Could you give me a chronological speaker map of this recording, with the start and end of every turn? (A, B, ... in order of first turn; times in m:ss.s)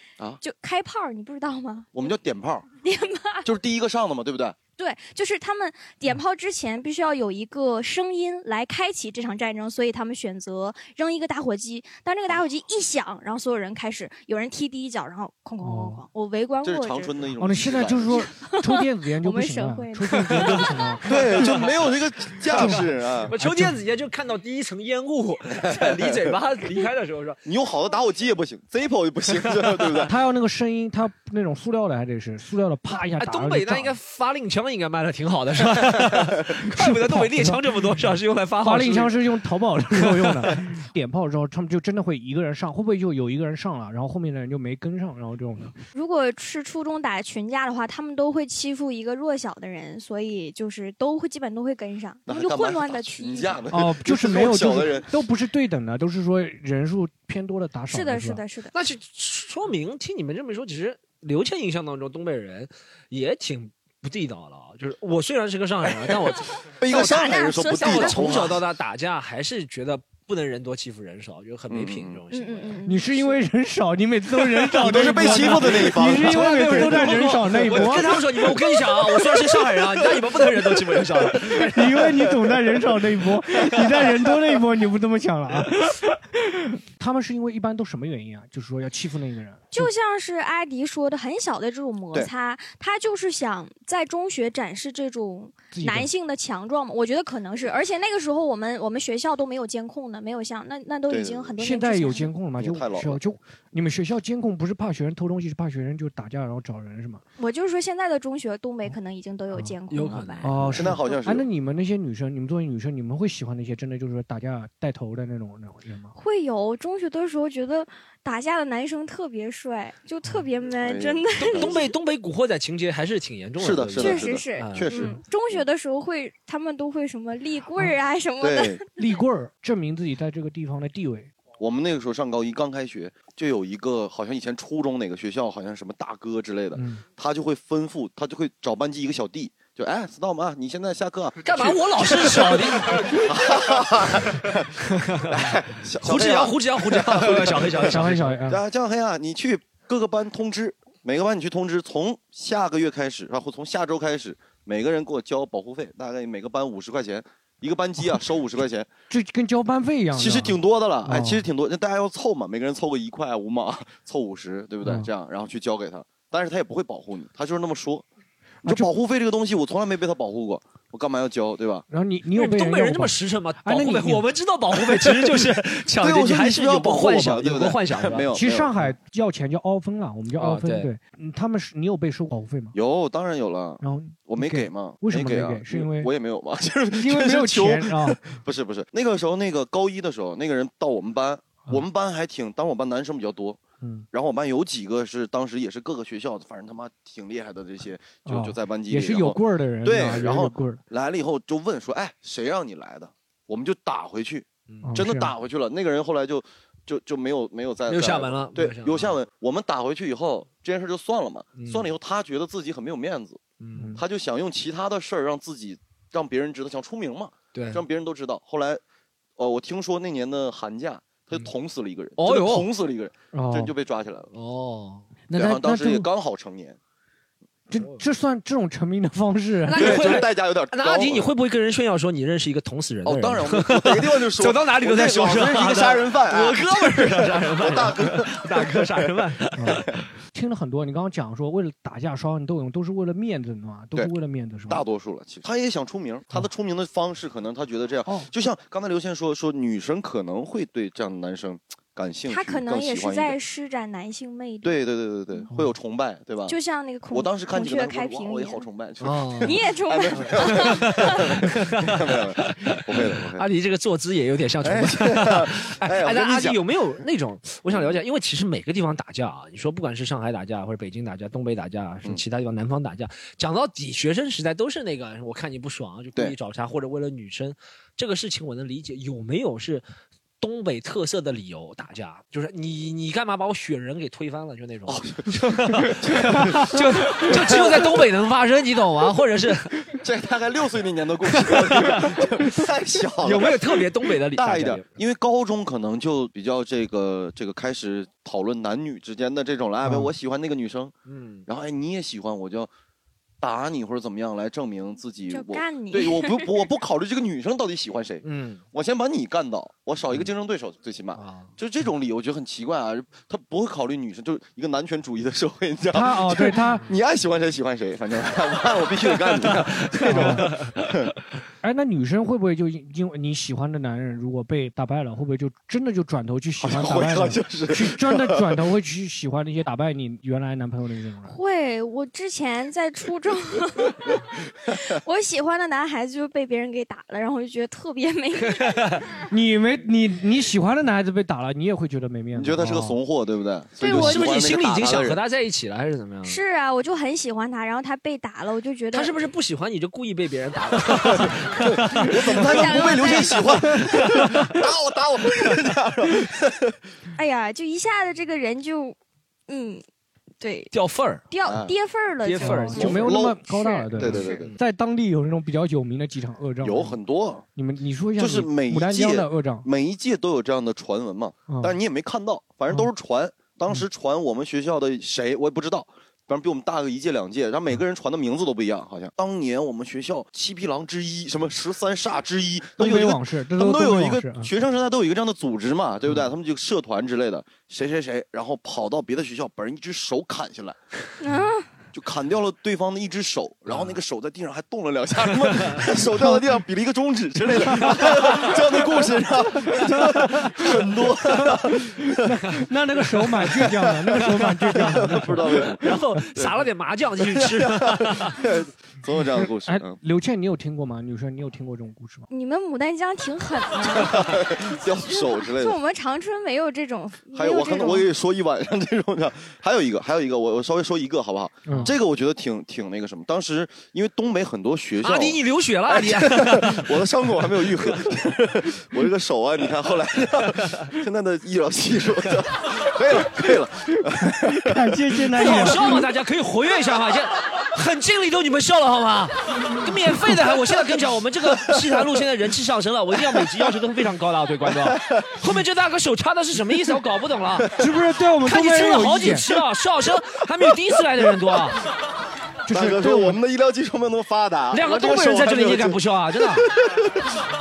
0:00.4-0:01.9 A
0:01.9-0:02.7 B
0:02.8-0:03.5 A
0:03.4-0:04.6 B
0:04.8-0:17.2 A
0:15.6-0:16.0 C
0:16.6-0:18.3 B
0:17.4-0:21.4 C
0:18.3-0:20.8 A
0:21.1-0:23.3 B
0:21.1-0:21.7 D
0:22.6-0:27.4 D
0:23.4-0:23.8 C
0:25.6-0:26.3 B
0:27.4-0:30.1 B
0:30.1-0:34.0 C
0:33.2-0:39.3 D
0:36.6-0:37.6 C
0:38.6-0:45.8 C
0:39.9-0:40.6 D
0:45.9-0:53.6 A
0:52.3-0:55.1 B
0:53.7-0:58.4 C
0:57.9-0:58.7 A
0:58.7-1:06.7 D
1:06.8-1:08.6 B
1:06.9-1:08.5 A
1:07.5-1:12.8 D
1:11.7-1:12.2 B
1:12.3-1:13.0 A
1:12.9-1:18.2 C
1:14.8-1:18.2 B
1:14.9-1:22.4 D
1:19.8-1:20.5 B
1:21.5-1:29.9 C
1:29.7-1:42.3 A
1:35.7-1:36.1 C
1:41.1-1:41.6 B
1:41.6-1:47.2 C
1:42.6-1:43.2 B
1:47.4-1:51.2 A
1:49.9-1:50.8 D
1:50.0-1:51.5 B
1:50.4-1:56.2 C
1:56.2-2:01.8 A
2:00.8-2:01.9 B
2:01.4-2:04.9 D
2:03.6-2:05.7 B
2:04.0-2:08.8 A
2:08.4-2:08.8 B
2:09.0-2:11.3 C
2:11.6-2:38.9 B
2:16.8-2:17.0 C
2:21.4-2:23.3 D
2:25.0-2:25.3 D
2:26.0-2:28.4 D
2:27.9-2:28.6 C
2:39.1-2:41.4 C
2:40.1-2:48.0 B
2:44.8-2:45.1 C
2:48.6-2:48.9 C
2:48.6-2:51.8 B
2:51.9-2:54.3 C
2:52.3-2:58.3 D
2:55.1-2:58.9 B
2:58.3-3:02.8 C
3:00.4-3:00.9 D
3:02.7-3:13.6 B
3:03.8-3:06.1 C
3:06.9-3:08.2 C
3:13.8-3:14.1 C
3:14.1-3:33.4 B
3:18.3-3:20.8 C
3:24.7-3:25.0 D
3:24.8-3:25.3 C
3:27.9-3:29.2 D
3:31.6-3:31.9 D
3:33.6-3:33.9 D
3:33.8-3:34.0 C
3:34.0-3:38.8 B
3:37.5-3:37.8 D
3:39.4-3:44.3 B
3:42.2-3:42.7 D
3:43.3-3:43.7 C
3:44.3-3:45.1 D
3:45.3-3:46.1 C
3:45.3-3:46.8 B
3:47.7-3:50.0 C
3:49.7-3:59.9 D
3:49.8-3:51.3 B
3:53.0-3:59.3 B
3:59.6-3:59.8 C
4:00.3-4:04.8 C
4:04.7-4:13.4 B
4:12.3-4:14.8 A
4:14.6-4:16.6 B
4:16.5-4:18.6 A
4:17.1-4:23.5 B
4:19.0-4:19.6 D
4:19.4-4:21.3 A
4:20.5-4:39.9 D
4:24.6-4:26.6 B
4:27.7-4:28.0 B
4:40.4-4:49.8 D
4:44.9-4:48.1 B
4:49.9-5:00.9 B
4:51.3-4:52.3 D
4:53.2-4:54.9 D
4:59.8-5:00.1 C
5:01.1-5:01.5 D
5:01.5-5:02.7 B
5:03.4-5:21.1 B
5:05.3-5:06.5 A
5:08.2-5:08.6 D
5:11.2-5:11.5 D
5:15.9-5:16.8 C
5:19.1-5:20.9 D
5:20.1-5:20.5 C
5:21.6-5:31.4 C
5:26.6-5:28.6 B
5:31.3-5:39.0 A
5:38.5-5:39.0 D
5:39.3-5:43.0 C
5:42.3-5:45.2 B
5:43.8-5:44.4 A
5:43.8-5:46.4 D
5:46.2-5:49.2 A
5:48.9-5:54.4 D
5:50.9-5:56.8 B
5:52.1-5:53.6 A
5:57.2-5:59.0 A
5:59.5-5:59.8 A
6:00.4-6:00.7 A
6:00.7-6:01.2 D
6:01.3-6:03.9 A
6:01.4-6:01.8 B
6:02.2-6:03.0 D
6:02.4-6:07.0 C
6:02.8-6:03.4 B
6:04.0-6:04.6 B
6:04.0-6:04.6 D
6:06.6-6:07.4 B
6:07.6-6:09.7 C
6:08.2-6:30.8 B
6:11.5-6:11.8 C
6:22.8-6:24.5 C
6:31.2-6:31.7 A
6:31.9-6:42.2 B
6:36.1-6:36.4 C
6:37.8-6:38.0 C
6:39.6-6:40.7 C
6:42.2-6:45.7 C
6:43.4-6:46.6 B
6:45.8-6:48.4 D
6:47.2-6:50.0 B
6:49.4-6:52.3 C
6:52.3-6:58.1 A
6:53.9-6:55.8 B
6:57.3-7:15.8 B
7:01.7-7:01.9 C
7:05.0-7:07.1 D
7:14.2-7:16.0 C
7:15.4-7:27.7 D
7:24.8-7:25.5 B
7:27.8-7:29.5 C
7:28.4-7:31.8 D
7:32.7-7:33.4 C
7:32.7-7:37.4 B
7:34.7-7:36.7 D